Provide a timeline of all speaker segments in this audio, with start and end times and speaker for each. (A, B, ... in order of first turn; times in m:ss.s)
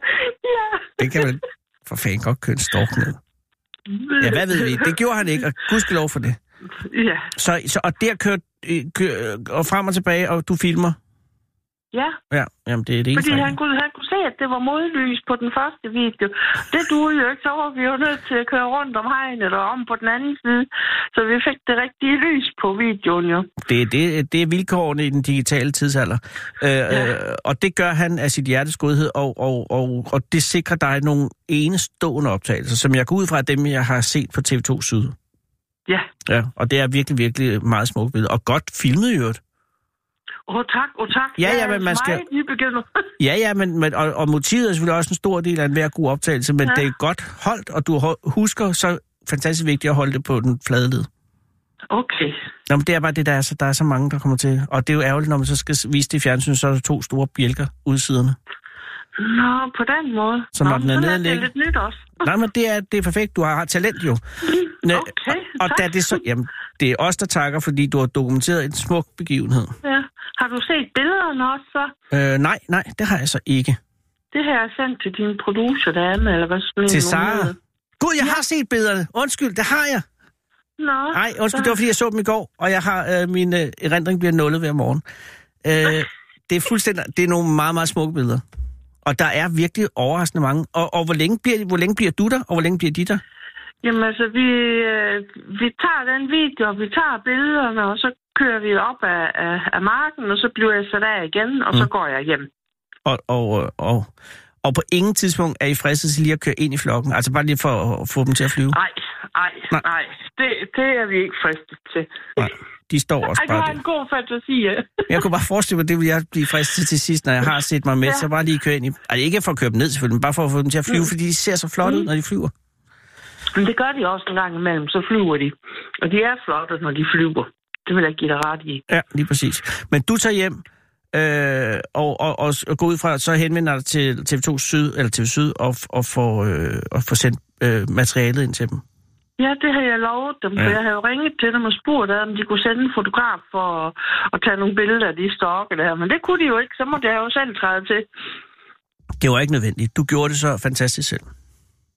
0:00.2-0:01.3 A
0:01.0-0:03.2 B
0:03.9-0:05.0 A
0:04.2-0:06.4 B
0:06.8-0:07.3 A
0:07.4-0:11.0 B
0:12.3-0:13.6 B
0:13.1-0:23.5 A
0:23.6-0:35.1 B
0:36.2-0:39.4 B
0:40.5-0:43.1 A
0:41.4-0:42.2 B
0:43.2-0:51.1 B
0:51.9-0:52.4 A
0:52.7-0:58.4 B
0:59.2-1:02.2 A
1:00.5-1:01.5 B
1:02.2-1:09.8 B
1:04.4-1:06.2 A
1:09.8-1:11.9 A
1:12.1-1:13.8 B
1:14.3-1:17.6 A
1:16.9-1:20.0 B
1:20.8-1:21.8 A
1:21.1-1:25.0 B
1:25.6-1:28.4 B
1:29.0-1:33.2 B
1:33.8-1:42.5 A
1:43.0-1:44.1 B
1:44.6-1:48.8 B
1:48.7-1:52.3 A
1:52.4-1:53.8 B
1:53.3-1:55.2 A
1:55.1-2:02.5 B
2:03.5-2:08.8 A
2:08.9-2:10.6 B
2:11.1-2:18.8 B
2:19.4-2:28.1 A
2:29.2-2:31.2 B